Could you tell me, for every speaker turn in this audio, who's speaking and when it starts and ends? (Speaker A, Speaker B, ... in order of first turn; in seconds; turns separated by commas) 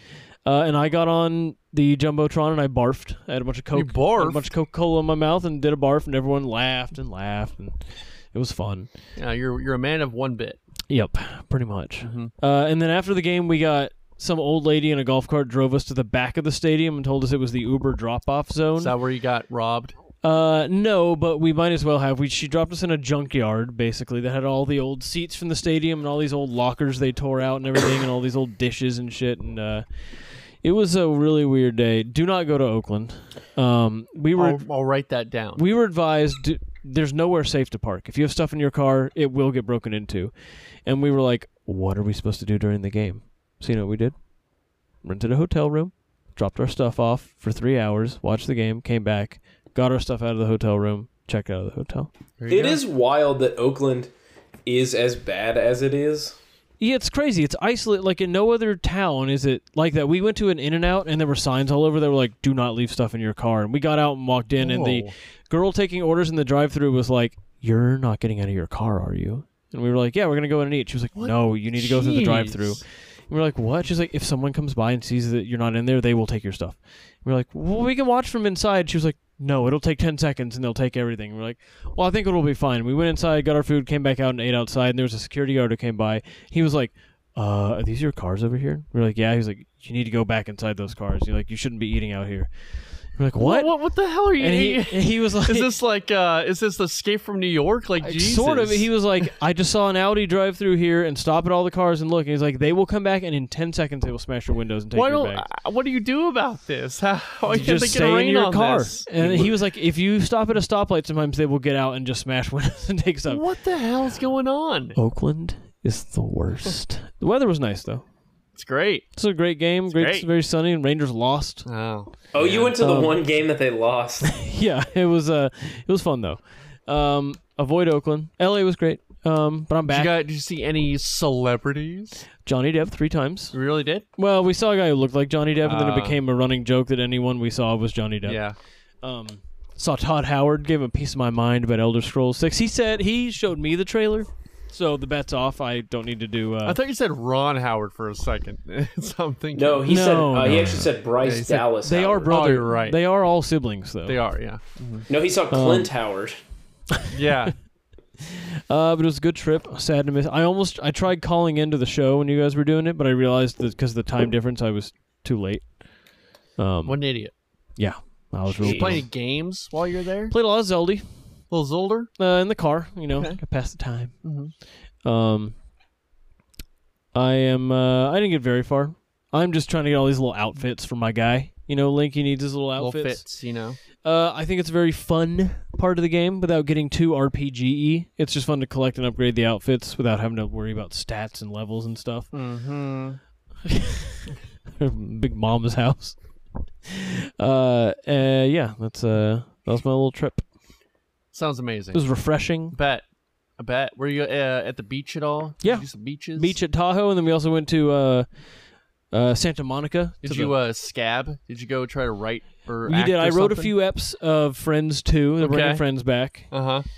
Speaker A: 0.4-8.9, Speaker B: 3.7-4.5, Speaker B: 9.2-10.6, Speaker A: 10.9-18.9, Speaker B: 12.0-12.3, Speaker B: 18.8-19.9, Speaker A: 20.2-29.9, Speaker A: 30.6-34.6, Speaker B: 34.3-35.6, Speaker A: 35.6-40.3, Speaker A: 40.8-44.1, Speaker A: 45.0-52.1, Speaker B: 52.4-52.8, Speaker C: 52.5-54.1, Speaker C: 54.6-56.4, Speaker A: 56.8-92.5, Speaker B: 64.6-65.1, Speaker B: 71.1-72.8, Speaker A: 93.0-93.7, Speaker B: 93.4-99.2, Speaker A: 94.4-95.7, Speaker A: 98.0-105.5, Speaker B: 104.9-109.6, Speaker A: 107.5-113.5, Speaker B: 113.3-115.0, Speaker A: 115.0-118.0, Speaker B: 118.5-119.1, Speaker A: 119.2-121.7, Speaker B: 119.9-120.3, Speaker B: 121.6-122.7, Speaker C: 122.3-124.3, Speaker A: 122.8-123.2, Speaker A: 124.2-130.1, Speaker B: 129.8-132.2, Speaker A: 132.4-133.6, Speaker B: 133.5-134.1, Speaker A: 134.2-138.4, Speaker B: 135.6-136.2, Speaker B: 138.2-138.6, Speaker A: 139.0-146.8, Speaker B: 146.6-150.2, Speaker C: 149.5-152.4, Speaker A: 149.9-150.9, Speaker B: 151.2-151.6, Speaker A: 151.5-154.2, Speaker B: 152.3-153.0, Speaker B: 154.1-155.1, Speaker C: 155.1-156.4, Speaker A: 155.5-155.9, Speaker B: 157.1-157.5, Speaker A: 158.2-165.7, Speaker A: 166.6-167.0, Speaker B: 166.8-167.3, Speaker A: 167.8-169.1, Speaker C: 168.5-169.0, Speaker B: 168.6-170.3, Speaker A: 170.3-171.0, Speaker B: 171.5-172.1, Speaker A: 172.2-174.1, Speaker B: 173.1-173.4, Speaker B: 174.2-174.5, Speaker A: 175.0-175.5, Speaker A: 177.1-183.2, Speaker B: 182.8-183.8, Speaker A: 184.0-192.3, Speaker B: 192.3-193.2, Speaker A: 193.7-196.2, Speaker A: 196.8-200.4, Speaker B: 201.3-202.0, Speaker A: 201.9-202.8, Speaker B: 202.7-203.0, Speaker B: 203.6-206.6, Speaker A: 205.6-208.4, Speaker A: 209.1-210.5, Speaker B: 210.2-213.7, Speaker A: 212.8-216.5, Speaker B: 215.4-215.8, Speaker B: 216.5-216.8